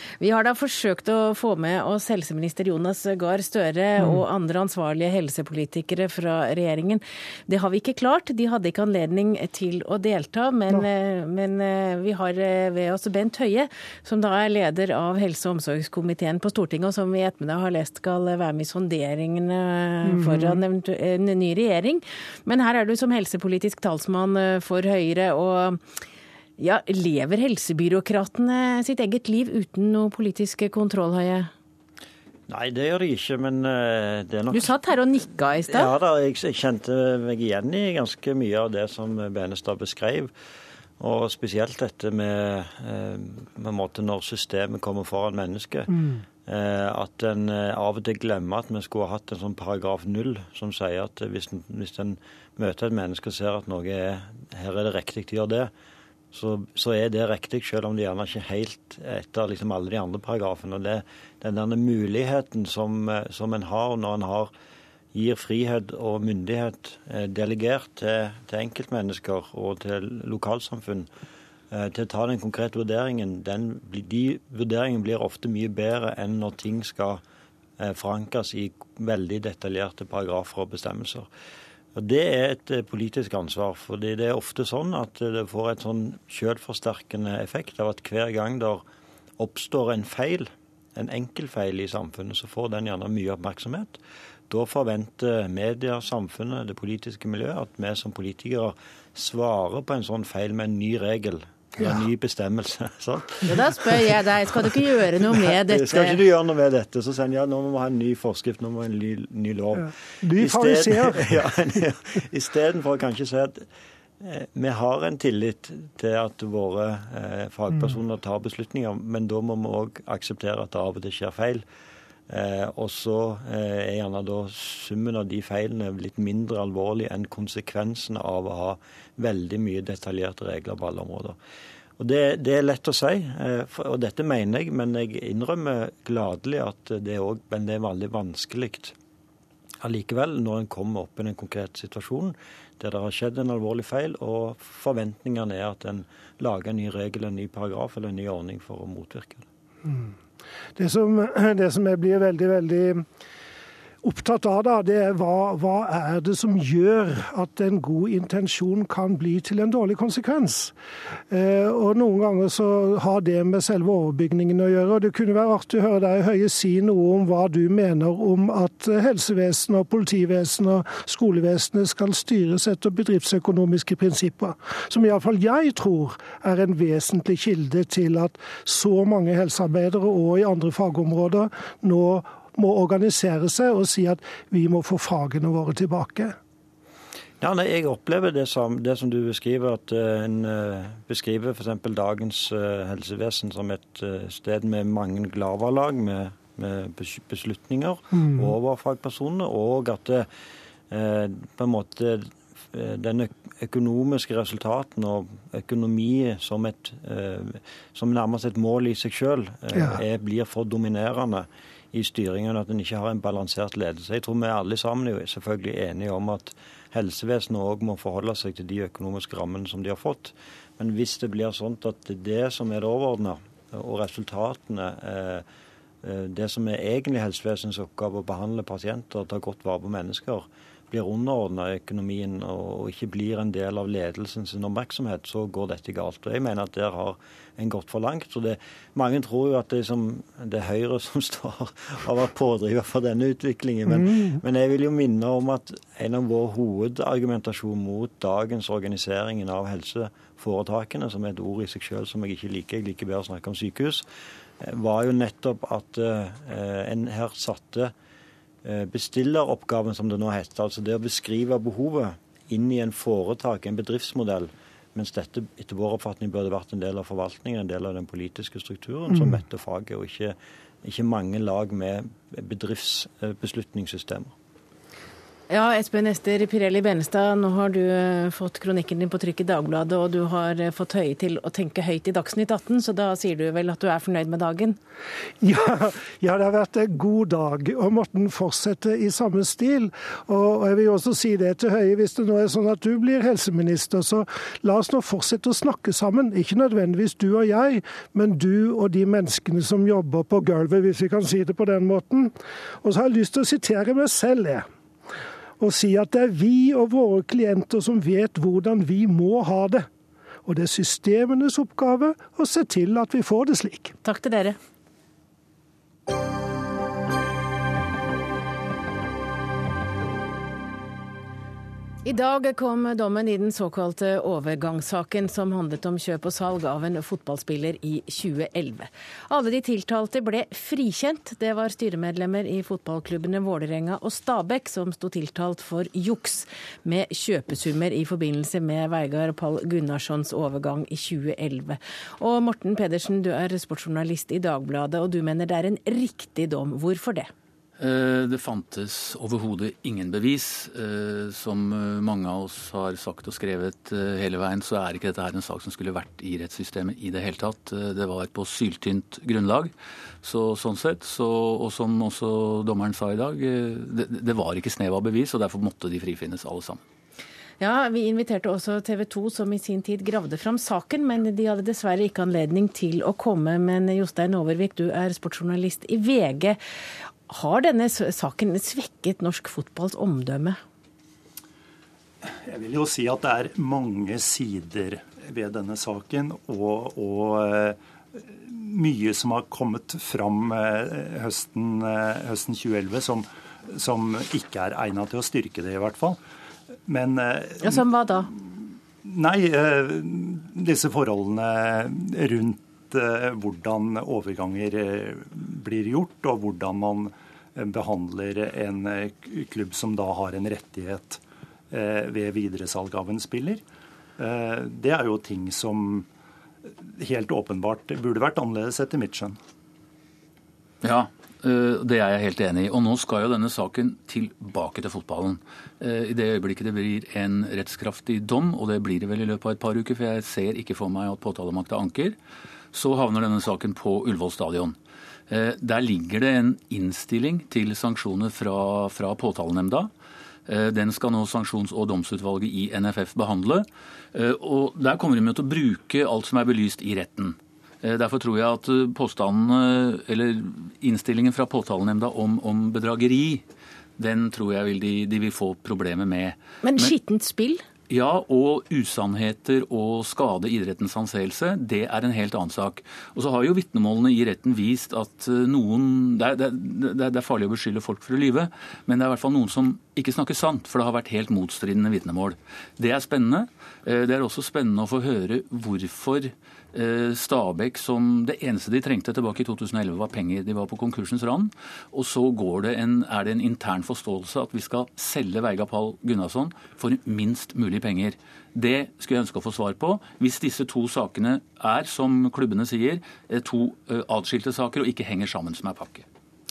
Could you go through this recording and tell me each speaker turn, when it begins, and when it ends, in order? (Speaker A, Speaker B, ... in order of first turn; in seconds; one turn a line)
Speaker A: 0.2-25.8
Speaker B: 4.0-4.2
Speaker B: 20.0-20.6
Speaker A: 26.6-31.5
Speaker C: 32.5-34.7
Speaker A: 34.5-35.9
Speaker C: 35.6-40.3
Speaker C: 41.0-45.9
Speaker C: 46.4-55.7
Speaker C: 56.3-64.5
Speaker C: 65.1-71.1
Speaker C: 71.7-77.2
Speaker C: 77.8-81.3
Speaker C: 82.0-88.8
Speaker C: 89.4-94.0
Speaker C: 94.5-104.1
Speaker A: 103.5-106.2
Speaker C: 105.5-113.7
Speaker B: 109.8-111.5
Speaker C: 114.2-121.6
Speaker C: 122.3-131.3
Speaker C: 132.0-138.9
Speaker C: 139.8-149.4
Speaker B: 149.8-150.1
Speaker B: 150.8-153.0
Speaker B: 154.0-160.7
Speaker B: 161.3-186.3
Speaker C: 187.4-200.3
Speaker C: 200.9-225.4
Speaker C: 226.0-254.0
Speaker C: 254.6-257.9
Speaker C: 258.6-274.3
Speaker A: 275.5-284.8
Speaker B: 285.4-304.6
Speaker B: 305.6-309.9
Speaker B: 310.4-313.9
Speaker A: 314.0-314.6
Speaker A: 322.0-347.3
Speaker D: 347.8-366.8
Speaker A: 367.6-376.6
Speaker A: 377.3-380.6
Speaker E: 382.4-396.2
Speaker E: 396.9-397.9
Speaker A: 397.6-398.3
Speaker E: 399.0-413.6
Speaker E: 414.2-416.1
Speaker E: 417.0-419.4
Speaker D: 420.8-432.2
Speaker D: 432.7-434.8
Speaker D: 435.3-439.9
Speaker D: 440.4-453.4
Speaker D: 454.0-456.9
Speaker A: 456.6-457.6
Speaker D: 457.9-496.0